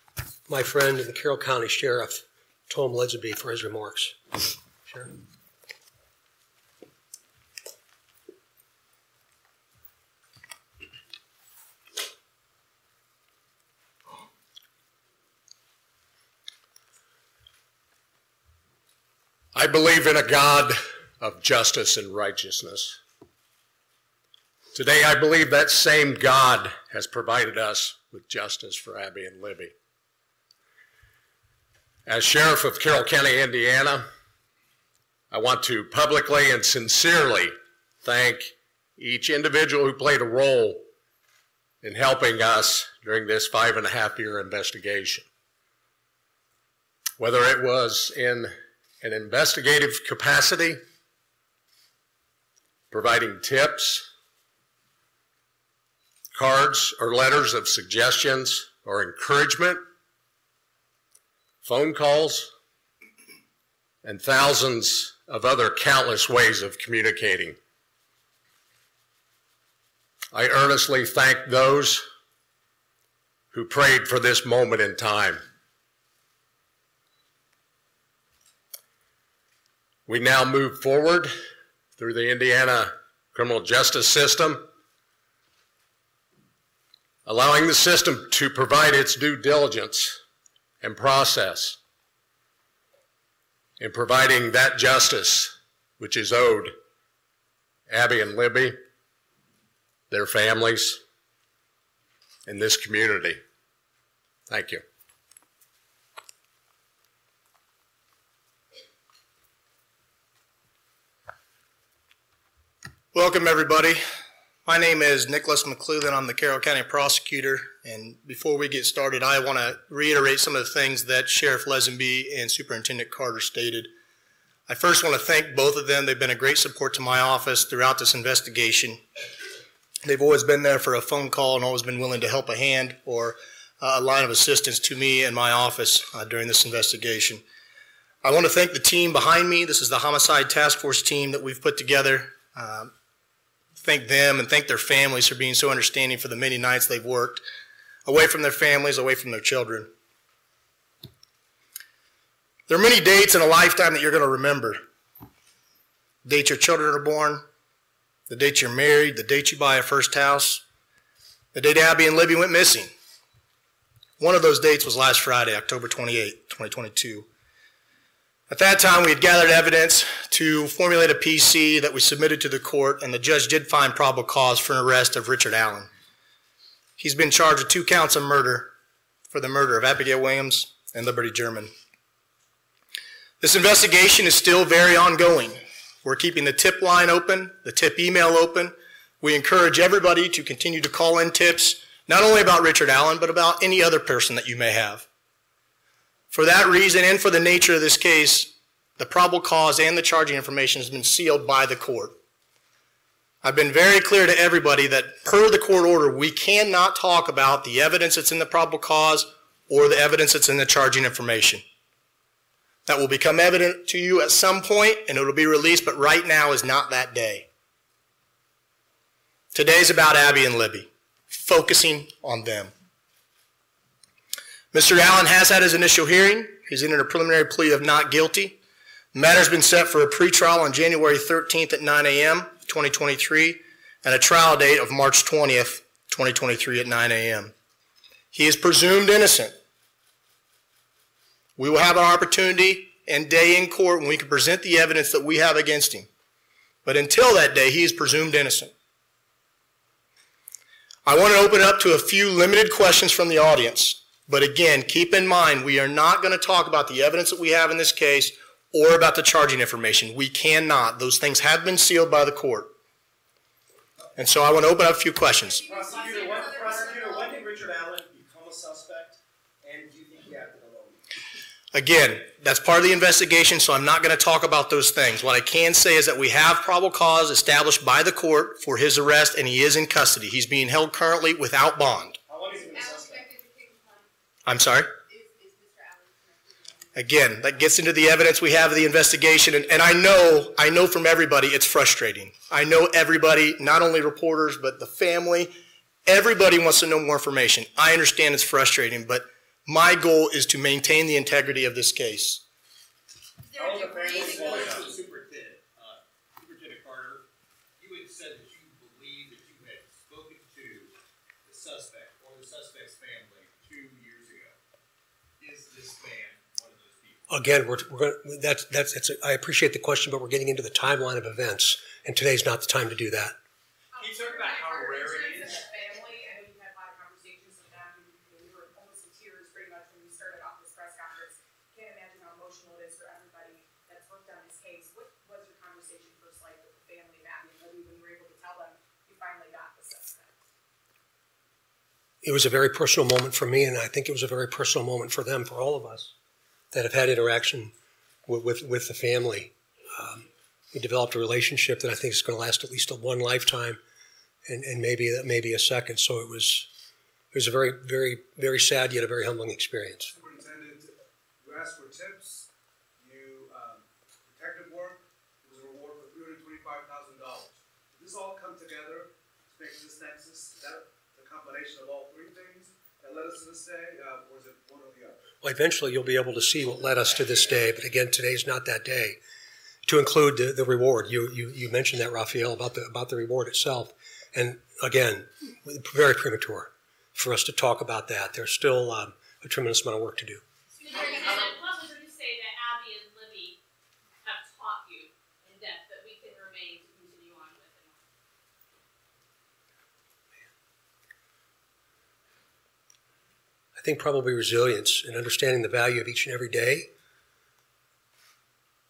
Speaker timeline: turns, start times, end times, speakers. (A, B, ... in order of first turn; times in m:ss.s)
0:00.5-0:05.1 A
0:19.6-0:23.0 B
0:24.7-0:29.7 B
0:32.1-0:34.1 B
0:35.3-0:40.8 B
0:41.8-0:45.3 B
0:47.2-0:50.8 B
0:52.9-0:54.1 B
0:56.4-0:59.8 B
1:01.6-1:02.5 B
1:04.0-1:07.6 B
1:10.3-1:12.0 B
1:13.5-1:15.4 B
1:20.1-1:21.3 B
1:22.0-1:24.7 B
1:27.3-1:30.2 B
1:30.8-1:31.8 B
1:33.8-1:36.8 B
1:37.9-1:38.8 B
1:40.1-1:41.0 B
1:42.5-1:43.4 B
1:44.5-1:44.8 B
1:53.1-1:54.0 C
1:54.6-2:03.9 C
2:04.7-2:09.0 C
2:10.0-2:17.4 C
2:18.2-2:22.9 C
2:23.8-2:27.4 C
2:28.1-2:29.9 C
2:32.7-2:34.8 C
2:36.2-2:37.4 C
2:38.3-2:40.6 C
2:41.5-2:42.9 C
2:44.2-2:47.3 C
2:48.5-2:55.9 C
2:57.0-2:58.7 C
2:59.3-3:01.7 C
3:03.4-3:15.1 C
3:16.3-3:22.2 C
3:23.4-3:31.6 C
3:32.9-3:37.5 C
3:39.5-3:42.7 C
3:44.7-3:48.6 C
3:49.1-3:57.5 C
3:58.3-3:59.6 C
4:01.6-4:06.1 C
4:06.8-4:08.7 C
4:11.0-4:22.7 C
4:24.2-4:25.7 C
4:25.4-4:27.4 D
4:25.7-4:31.0 E
4:31.7-4:42.2 C
4:42.3-4:43.2 E
4:42.7-4:44.1 D
4:44.5-4:44.9 C
4:45.0-4:47.0 D
4:47.0-5:02.4 C
5:03.5-5:04.9 D
5:03.6-5:07.2 F
5:03.6-5:04.8 E
5:07.8-5:10.9 F
5:11.4-5:14.6 F
5:15.4-5:17.3 F
5:17.3-5:23.4 A
5:24.0-5:40.4 G
5:24.0-5:25.7 F
5:42.2-5:46.1 A
5:46.7-5:47.7 A
5:48.3-5:53.8 A
5:54.5-5:56.7 A
5:57.3-6:00.1 A
6:00.1-6:15.2 H
6:15.4-6:19.2 A
6:19.9-6:30.4 A
6:30.8-6:33.6 D
6:34.2-6:38.0 D
6:43.8-6:46.9 A